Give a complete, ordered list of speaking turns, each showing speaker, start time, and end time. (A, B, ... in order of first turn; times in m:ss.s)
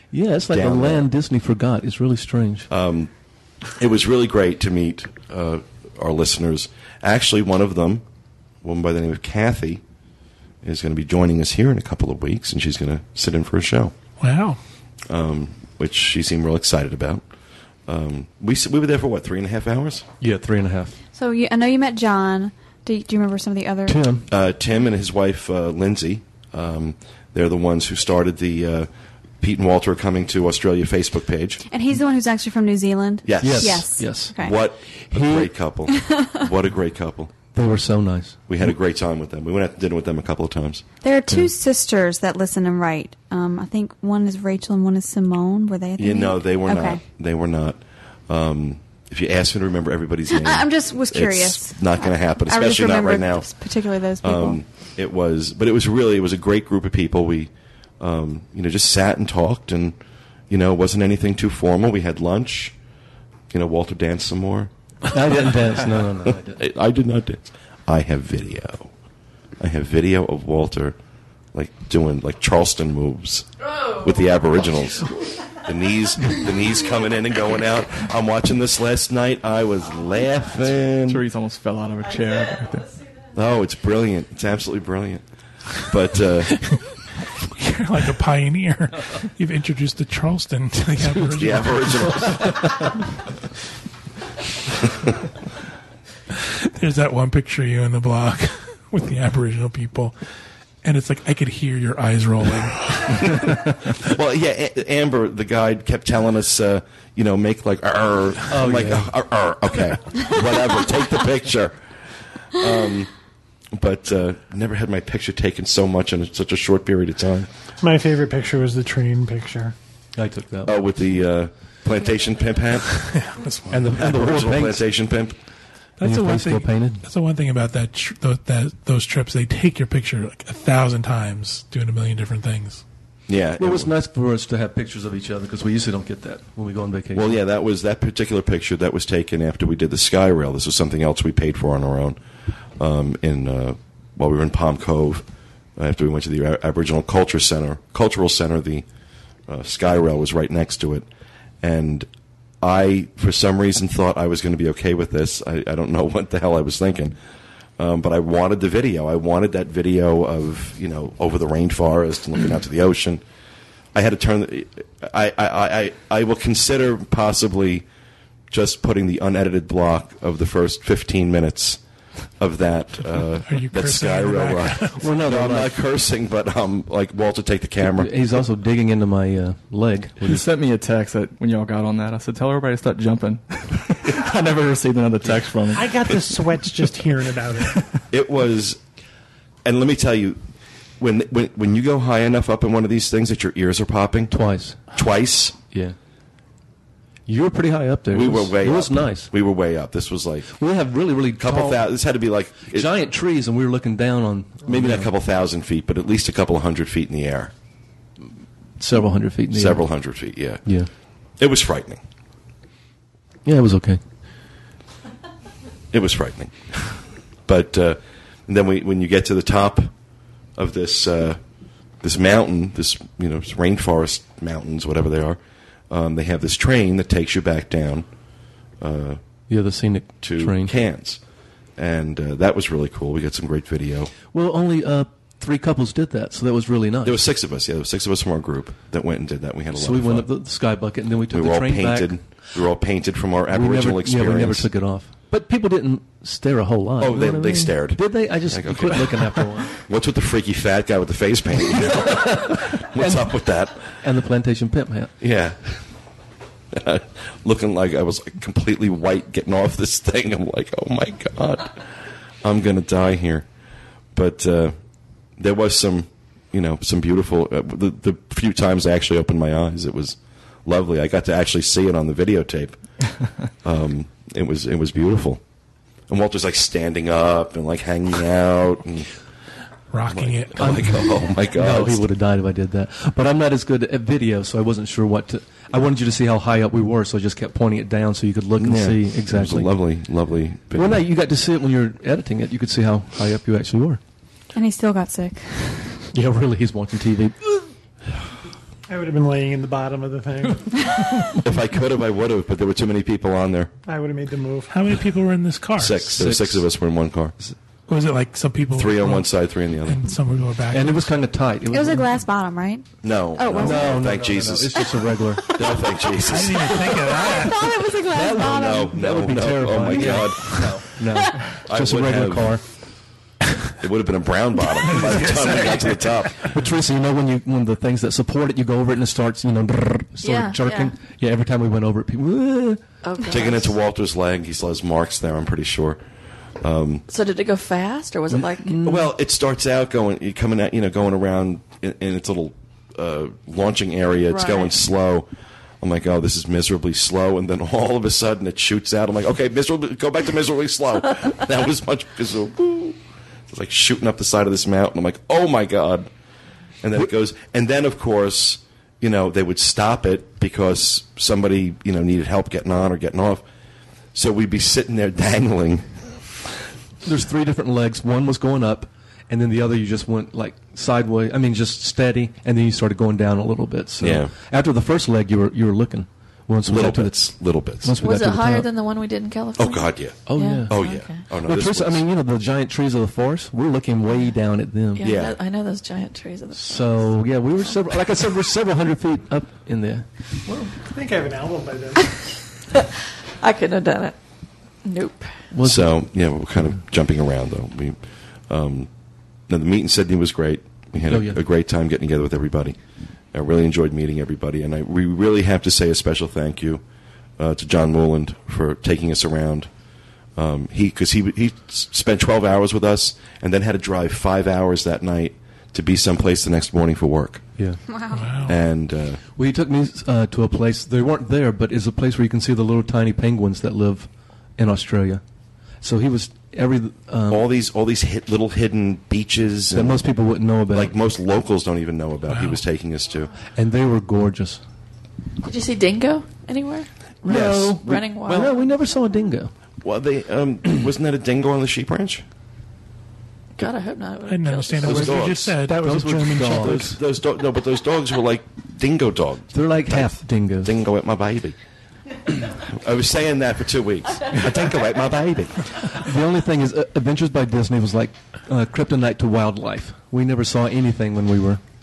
0:00.1-0:02.7 A
0:00.5-0:01.1 B
0:02.7-0:03.1 B
0:03.8-0:08.0 B
0:08.6-0:09.8 B
0:10.6-0:13.9 B
0:14.2-0:14.6 C
0:15.1-0:17.2 B
0:17.9-0:20.0 B
0:20.2-0:21.0 A
0:21.1-0:24.0 D
0:23.8-0:24.2 A
0:24.3-0:28.9 B
0:29.4-0:31.6 B
0:31.7-0:34.6 D
0:33.2-0:37.3 B
0:33.4-0:35.5 A
0:36.0-0:36.3 D
0:37.5-0:38.7 A
0:38.5-0:40.8 B
0:41.0-0:47.0 D
0:46.0-0:53.5 B
0:50.3-0:54.6 D
0:54.2-1:00.0 B
1:00.5-1:02.7 B
1:03.5-1:04.7 B
1:05.1-1:06.6 A
1:06.2-1:08.9 B
1:09.6-1:11.0 B
1:11.5-1:21.2 B
1:21.1-1:22.9 E
1:23.3-1:25.2 B
1:25.7-1:26.7 B
1:27.4-1:32.1 C
1:31.4-1:32.9 B
1:31.8-1:32.9 A
1:36.4-1:40.1 C
1:40.8-1:43.6 C
1:44.0-1:51.8 B
1:48.5-1:49.1 A
1:52.5-1:53.1 B
1:53.7-1:57.5 B
1:57.8-1:59.7 F
2:00.1-2:00.7 A
2:00.6-2:03.1 B
2:03.1-2:03.8 C
2:03.7-2:04.8 A
2:03.9-2:05.4 B
2:06.0-2:12.8 C
2:06.0-2:07.0 A
2:13.3-2:13.9 B
2:13.6-2:17.4 A
2:17.1-2:22.2 B
2:22.8-2:28.8 B
2:29.5-2:31.1 B
2:31.6-2:32.1 B
2:32.6-2:37.2 B
2:37.8-2:43.2 B
2:43.9-2:47.8 B
2:48.5-2:51.8 B
2:52.4-2:58.1 B
2:53.4-2:55.1 C
2:55.0-2:55.8 A
2:57.9-3:00.4 A
3:00.2-3:06.1 E
3:05.7-3:07.8 F
3:08.1-3:08.8 B
3:09.6-3:10.4 B
3:11.0-3:14.3 B
3:14.3-3:14.8 A
3:14.9-3:15.6 B
3:15.7-3:16.0 A
3:17.2-3:19.3 A
3:18.1-3:20.5 B
3:20.5-3:21.9 A
3:21.4-3:22.9 B
3:22.7-3:25.1 A
3:24.6-3:27.5 B
3:28.8-3:29.8 A
3:29.5-3:30.6 B
3:30.6-3:30.9 A
3:31.4-3:32.0 B
3:33.4-3:34.0 A
3:35.9-3:39.9 B
3:40.6-3:41.4 B
3:42.0-3:48.1 B
3:48.8-3:49.2 B
3:49.5-3:50.7 A
3:50.2-3:51.2 B
3:51.8-3:54.1 B
3:54.3-3:57.2 A
3:57.0-4:00.3 B
3:59.7-4:02.2 A
4:01.3-4:04.7 B
4:03.5-4:09.7 A
4:07.0-4:13.9 B
4:11.7-4:15.1 A
4:15.2-4:15.8 B
4:16.7-4:21.9 B
4:22.4-4:23.4 B
4:24.1-4:24.8 B
4:25.4-4:32.8 B
4:33.6-4:35.4 B
4:36.1-4:39.1 B
4:39.9-4:40.8 C
4:40.1-4:42.0 B
4:40.6-4:49.7 A
4:48.6-4:51.0 B
4:50.7-4:54.0 A
4:54.5-4:56.0 D
4:56.1-4:57.6 A
4:58.9-5:01.0 F
5:01.4-5:03.7 B
5:03.8-5:04.8 F
5:04.7-5:06.1 C
5:05.8-5:07.5 B
5:06.1-5:06.6 A
5:07.9-5:11.1 C
5:08.7-5:10.0 B
5:10.7-5:12.1 A
5:11.7-5:14.0 D
5:13.0-5:14.8 B
5:13.5-5:15.7 A
5:15.5-5:17.1 B
5:15.5-5:15.7 D
5:16.2-5:17.7 C
5:17.2-5:18.9 D
5:18.1-5:22.6 A
5:18.2-5:20.8 B
5:21.6-5:22.6 B
5:23.8-5:26.5 B
5:24.9-5:25.9 C
5:26.4-5:32.8 A
5:30.2-5:30.9 G
5:33.0-5:33.8 G
5:33.3-5:36.0 B
5:36.6-5:37.0 B
5:37.1-5:38.8 G
5:38.3-5:39.1 A
5:38.8-5:45.3 B
5:44.3-5:44.8 G
5:45.8-5:53.0 B
5:53.5-5:56.1 B
5:56.8-6:03.4 B
6:04.1-6:06.1 B
6:07.0-6:17.2 A
6:14.0-6:14.3 B
6:16.6-6:18.0 B
6:17.8-6:18.7 A
6:18.0-6:21.2 G
6:19.6-6:22.0 B
6:20.3-6:25.1 A
6:24.9-6:27.2 G
6:25.0-6:25.4 B
6:26.5-6:30.7 A
6:30.8-6:32.1 F
6:33.4-6:34.2 G
6:34.8-6:35.4 G
6:35.5-6:36.0 A
6:35.6-6:38.9 B
6:39.5-6:42.8 B
6:41.1-6:41.4 A
6:43.3-6:46.8 B
6:47.4-6:49.7 B
6:50.4-6:57.4 B
6:57.9-6:58.3 D
6:58.1-6:58.5 C
6:58.5-6:59.2 B
6:59.4-7:05.2 A
7:05.8-7:07.5 A
7:07.3-7:10.0 B
7:09.7-7:11.0 A
7:10.7-7:13.3 B
7:12.3-7:12.6 C
7:13.5-7:14.6 A
7:15.4-7:18.6 G
7:17.3-7:19.5 A
7:17.3-7:18.0 B
7:19.8-7:22.2 B
7:23.6-7:25.2 G
7:24.3-7:26.8 C
7:24.8-7:25.6 B
7:24.9-7:27.0 A
7:25.7-7:26.8 F
7:26.5-7:31.6 B
7:29.5-7:30.8 A
7:32.3-7:35.6 B
7:35.8-7:41.6 A